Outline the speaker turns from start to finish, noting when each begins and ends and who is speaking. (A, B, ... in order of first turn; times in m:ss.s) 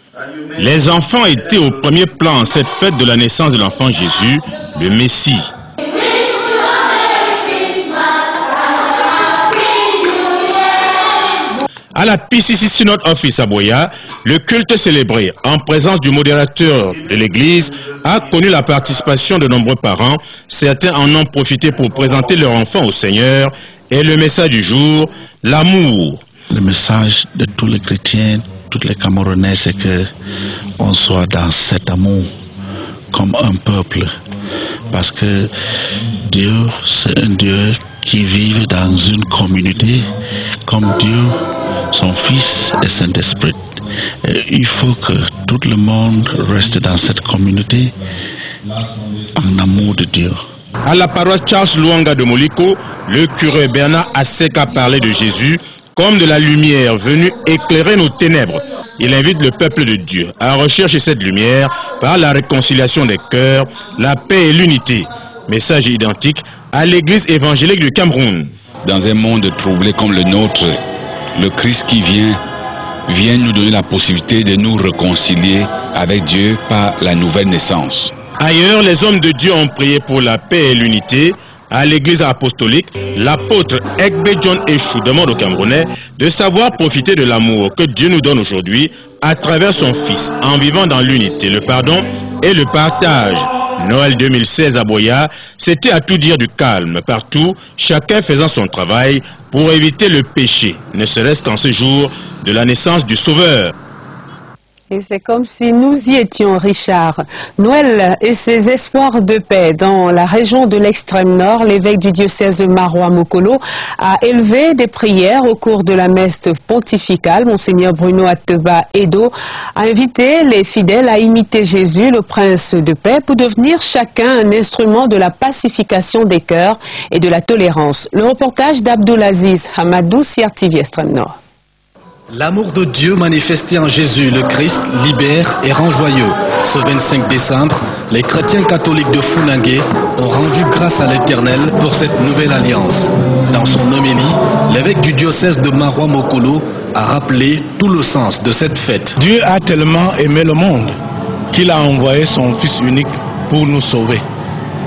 0:00.6-0:05.5 A
0:11.9-0:26.2 A
0:26.5-0:30.1 B
0:30.8-0:32.3 B
0:33.1-0:34.1 B
0:34.9-0:35.5 B
0:36.2-0:40.1 B
0:40.6-0:41.4 B
0:41.9-0:43.7 B
0:44.2-0:47.9 B
0:49.4-0:50.4 B
0:50.8-1:08.5 A
1:08.8-1:10.8 C
1:11.3-1:12.4 C
1:13.1-1:18.1 C
1:18.4-1:43.7 A
1:44.9-2:11.3 D
2:12.3-2:29.2 E
2:29.4-2:30.5 F
2:31.5-2:34.2 F